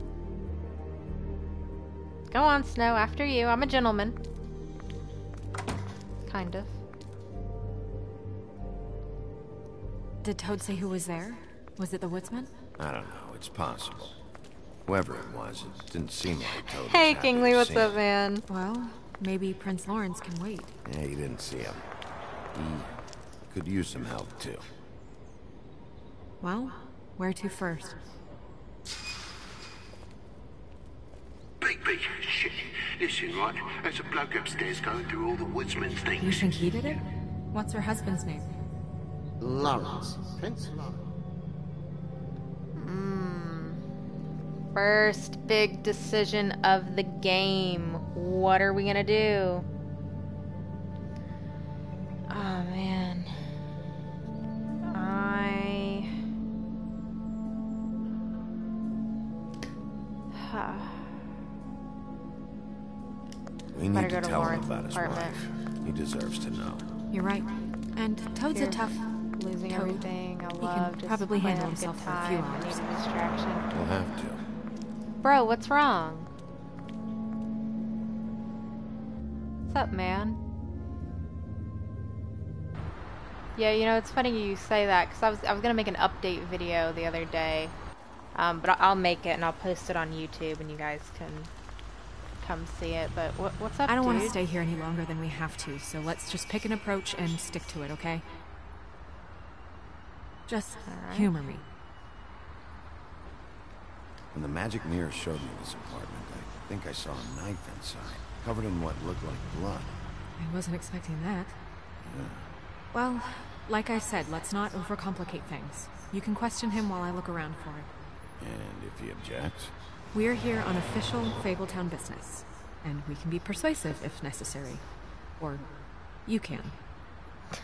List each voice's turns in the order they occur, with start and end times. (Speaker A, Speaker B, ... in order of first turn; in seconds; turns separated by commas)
Speaker A: 2.3-4.2, Speaker A: 6.3-6.7, Speaker B: 10.2-12.5, Speaker C: 12.8-14.2, Speaker C: 14.8-18.0, Speaker A: 16.7-18.4, Speaker B: 18.5-20.7, Speaker C: 20.8-21.8, Speaker C: 22.5-22.9, Speaker C: 23.5-24.7, Speaker B: 26.4-28.0, Speaker D: 31.6-36.3, Speaker B: 36.2-38.5, Speaker D: 39.4-41.0, Speaker A: 42.8-43.8, Speaker A: 44.7-49.6, Speaker A: 52.3-53.3, Speaker A: 54.9-56.1, Speaker A: 60.3-61.1, Speaker C: 63.7-66.8, Speaker A: 63.9-65.4, Speaker B: 67.1-69.0, Speaker A: 68.5-68.8, Speaker A: 69.3-73.7, Speaker B: 69.7-70.1, Speaker B: 70.6-72.8, Speaker C: 73.7-74.4, Speaker A: 75.2-76.3, Speaker A: 79.6-80.4, Speaker A: 83.5-87.7, Speaker A: 88.3-91.5, Speaker A: 92.4-94.4, Speaker B: 93.9-98.2, Speaker B: 100.5-101.6, Speaker A: 100.9-101.3, Speaker C: 104.3-110.0, Speaker B: 110.4-111.6, Speaker C: 112.0-112.5, Speaker B: 112.9-117.9, Speaker C: 118.4-119.7, Speaker B: 120.1-124.8, Speaker B: 125.4-125.7, Speaker B: 126.2-126.8